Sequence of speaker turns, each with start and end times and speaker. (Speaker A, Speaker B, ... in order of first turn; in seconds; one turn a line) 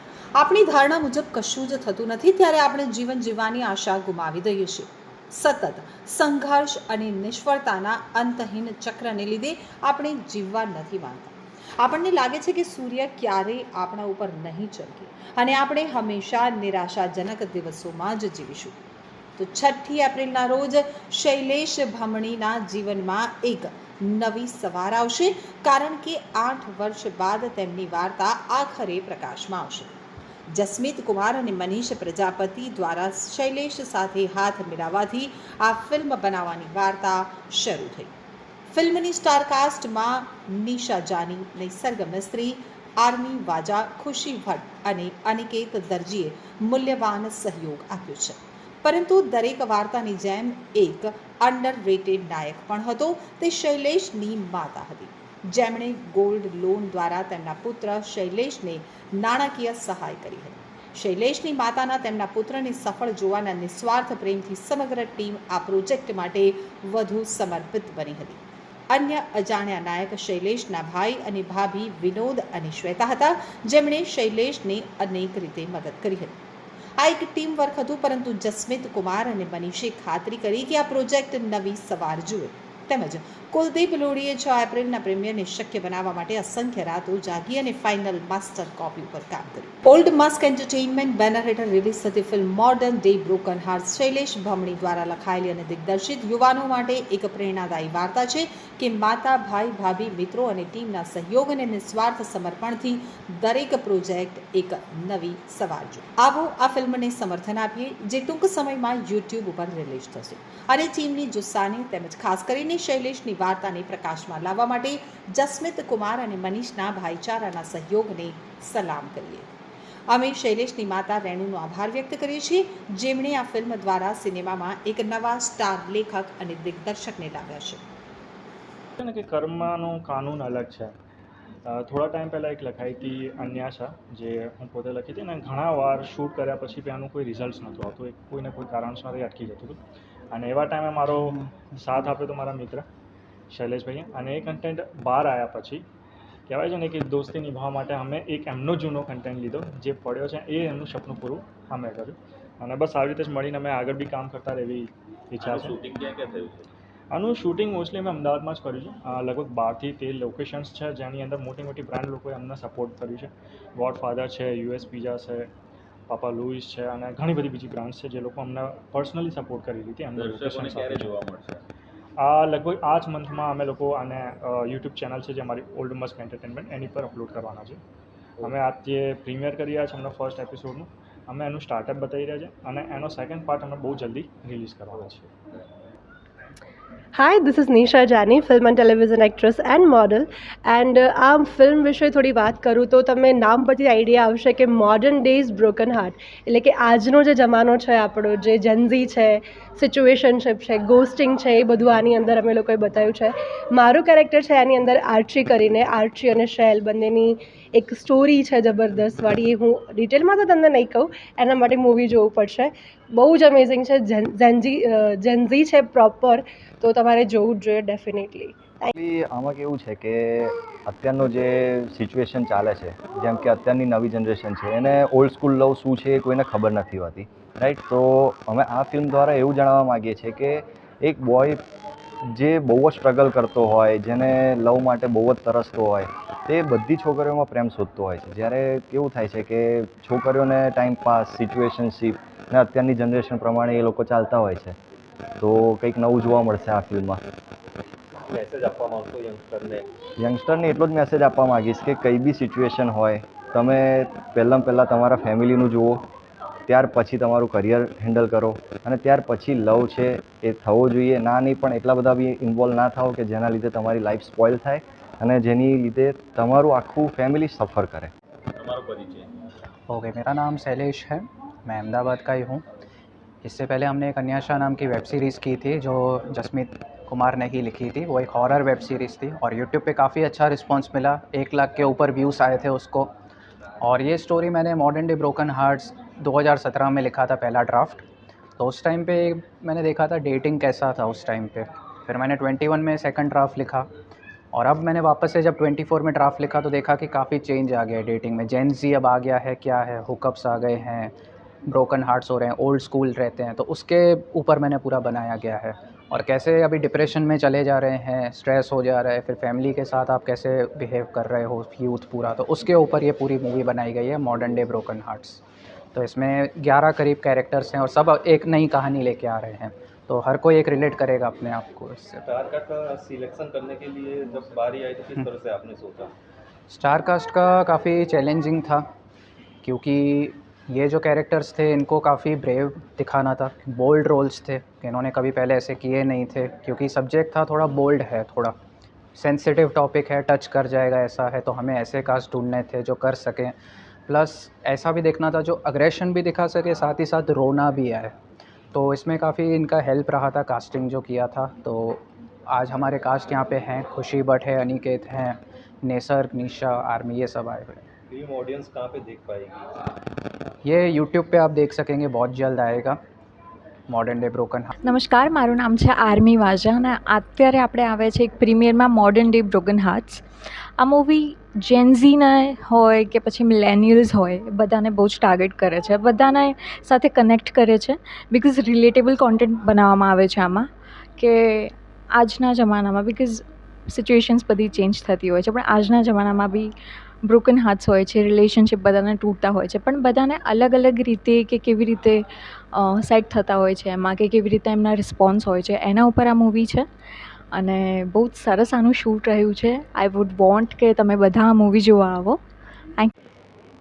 Speaker A: 0.4-18.8
Speaker A: 19.4-29.9
Speaker A: 30.5-38.1
Speaker A: 38.7-68.4
Speaker A: 68.9-76.3
Speaker A: 77.0-119.5
Speaker A: 120.1-127.8
Speaker B: 129.0-130.9
Speaker B: 131.7-139.8
Speaker B: 140.3-142.8
Speaker B: 143.5-145.8
Speaker B: 146.5-155.8
Speaker C: 155.4-156.7
Speaker B: 157.1-165.5
Speaker B: 166.1-171.2
Speaker C: 170.1-171.6
Speaker B: 172.2-177.8
Speaker B: 178.4-185.3
Speaker D: 187.1-218.9
Speaker E: 218.9-231.6
Speaker E: 232.3-244.8
Speaker E: 245.4-247.2
Speaker C: 248.2-249.8
Speaker E: 250.2-256.0
Speaker E: 256.7-268.1
Speaker C: 268.5-269.4
Speaker F: 269.9-272.6
Speaker F: 273.4-283.1
Speaker F: 283.8-288.0
Speaker F: 288.6-293.9
Speaker F: 294.5-301.1
Speaker F: 301.7-315.4
Speaker F: 315.9-322.2
Speaker C: 322.2-326.1
Speaker F: 326.7-328.8
Speaker F: 329.6-338.6
Speaker F: 339.1-343.5
Speaker F: 344.1-348.1
Speaker F: 348.7-357.8
Speaker C: 358.1-359.6
Speaker F: 360.6-363.0
Speaker F: 363.9-364.7
Speaker G: 364.8-370.2
Speaker G: 370.8-386.7
Speaker G: 387.2-392.2
Speaker G: 392.7-396.9
Speaker G: 397.5-402.4